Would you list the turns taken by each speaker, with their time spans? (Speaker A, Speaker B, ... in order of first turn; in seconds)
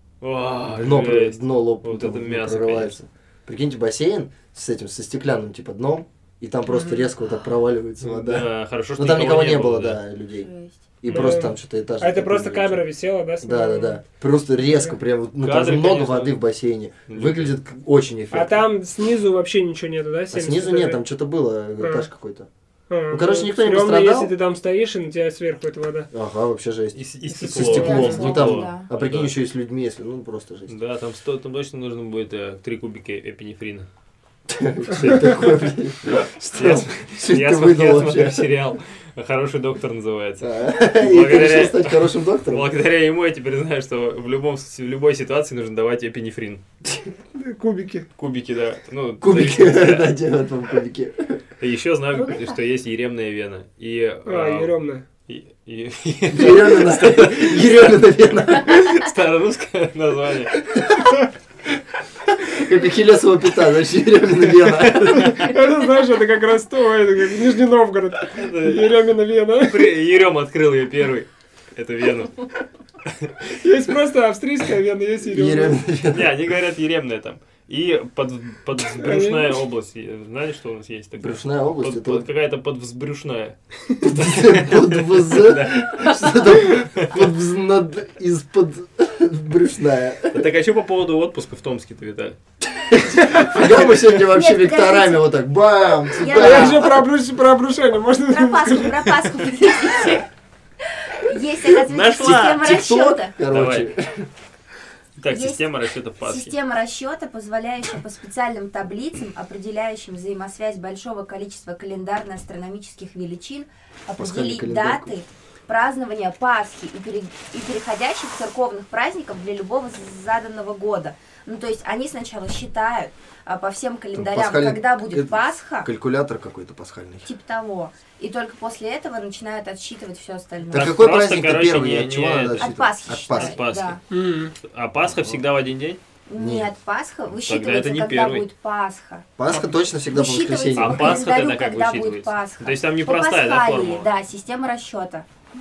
Speaker A: 0.2-3.0, 8.0-10.0, 15.4-16.4, 17.1-17.6, 26.9-29.3, 30.7-33.9, 34.9-35.5, 36.0-46.6, 48.2-50.1, 51.6-54.7, 55.3-57.9, 58.6-60.6, 68.3-68.9, 69.6-72.3, 76.1-87.2, 90.3-92.4, 101.8-102.7, 103.5-103.9, 105.2-106.5, 130.7-132.7, 133.3-134.0, 134.6-136.0, 137.4-138.4, 140.8-144.1
Speaker B: 0.7-10.5, 11.0-12.8, 13.4-18.6, 20.3-22.5, 23.1-24.3, 26.1-30.7, 34.5-38.5, 40.4-42.7, 49.2-51.4, 56.3-58.9, 60.7-61.1, 62.3-65.5, 75.3-76.3, 81.2-82.2, 84.0-90.4, 92.7-97.0, 102.6-104.3, 114.2-115.1, 124.1-127.3, 130.7-133.6, 136.3-136.7, 139.4-141.2
Speaker C: 6.7-7.1, 11.1-14.0, 14.7-14.9, 18.3-21.0, 21.8-22.1, 22.9-26.1, 27.3-28.3, 47.3-48.1, 54.2-55.0, 65.2-69.9, 73.5-75.8, 79.0-79.6, 96.3-99.2, 134.1-134.5
Speaker D: 10.4-10.9, 27.6-28.9, 52.1-52.5, 94.3-95.2, 96.2-96.9, 98.3-100.3, 100.9-103.3, 105.3-105.7, 106.2-125.9, 127.2-131.0, 132.6-134.0, 136.3-139.2, 140.1-145.2